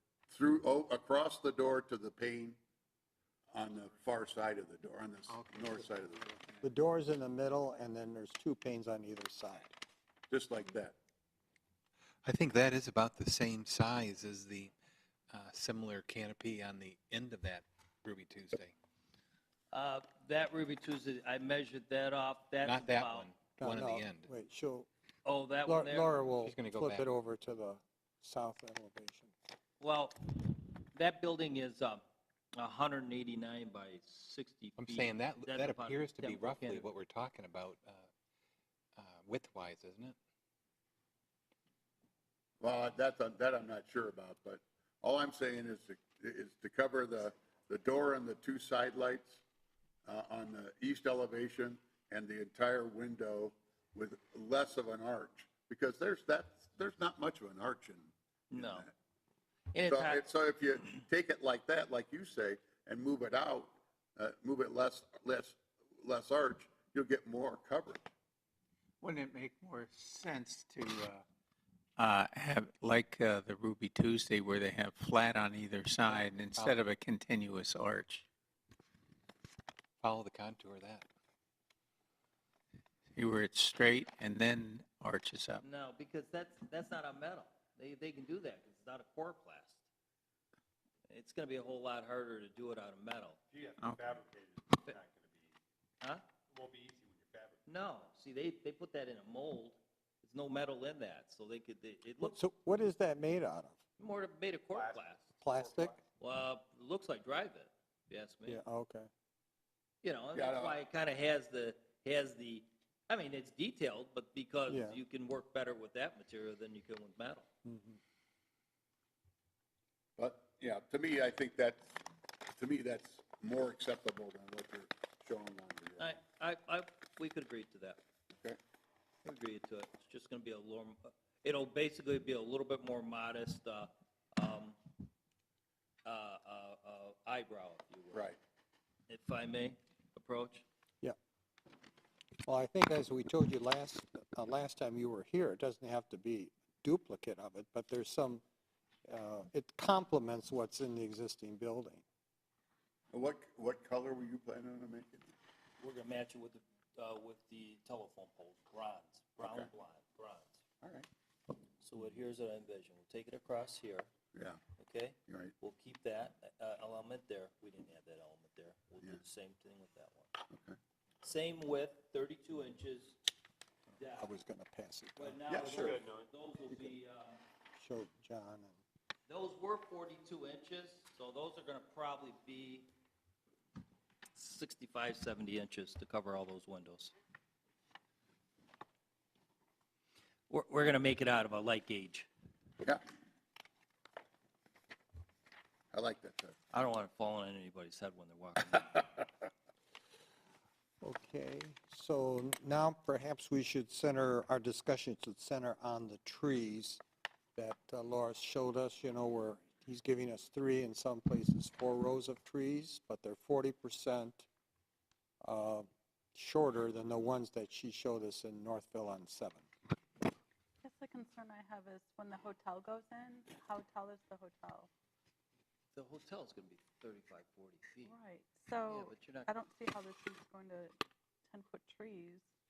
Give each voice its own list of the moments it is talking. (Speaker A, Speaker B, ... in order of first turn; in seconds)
Speaker A: 0.3-2.6, 3.5-6.5, 10.3-10.9, 42.6-49.4, 50.0-58.9, 59.9-68.0, 110.3-110.8, 120.2-122.0, 122.6-126.2, 153.1-155.2, 159.4-159.7, 160.8-161.1, 164.3-164.6, 165.3-165.5, 170.5-170.8, 175.5-176.0, 195.9-196.5
Speaker B: 6.6-9.8, 23.6-24.9, 25.6-29.3, 102.2-103.8, 105.4-105.9, 108.5-109.1, 114.7-115.0, 117.6-118.0, 142.4-148.4, 149.1-152.0, 174.1-175.4, 177.7-178.8, 201.0-207.0, 207.6-214.5, 215.4-219.7
Speaker C: 12.2-14.7, 15.3-18.7, 22.6-24.3, 26.4-27.1, 34.8-38.1, 39.0-40.1, 76.1-76.8, 80.0-81.1
Speaker D: 19.7-23.3, 25.2-26.2, 29.8-32.0, 32.5-36.9, 58.5-58.9, 59.7-60.3, 85.6-89.8, 91.1-93.4, 97.7-102.4, 104.0-105.4, 106.2-108.6, 110.0-117.5, 126.0-128.0, 129.2-134.8, 136.0-138.3, 139.1-140.6, 155.8-160.6, 161.8-164.1, 164.8-170.3, 171.2-173.2, 174.0-174.3, 175.2-177.4, 179.3-182.9, 184.3-187.1, 190.5-192.3, 196.7-199.2, 225.9-228.1, 228.8-229.5
Speaker E: 69.0-71.2, 72.0-78.2, 83.2-85.6
Speaker F: 93.5-95.5, 96.4-97.6, 104.7-106.0
Speaker G: 220.8-224.9, 228.0-230.9, 231.5-232.4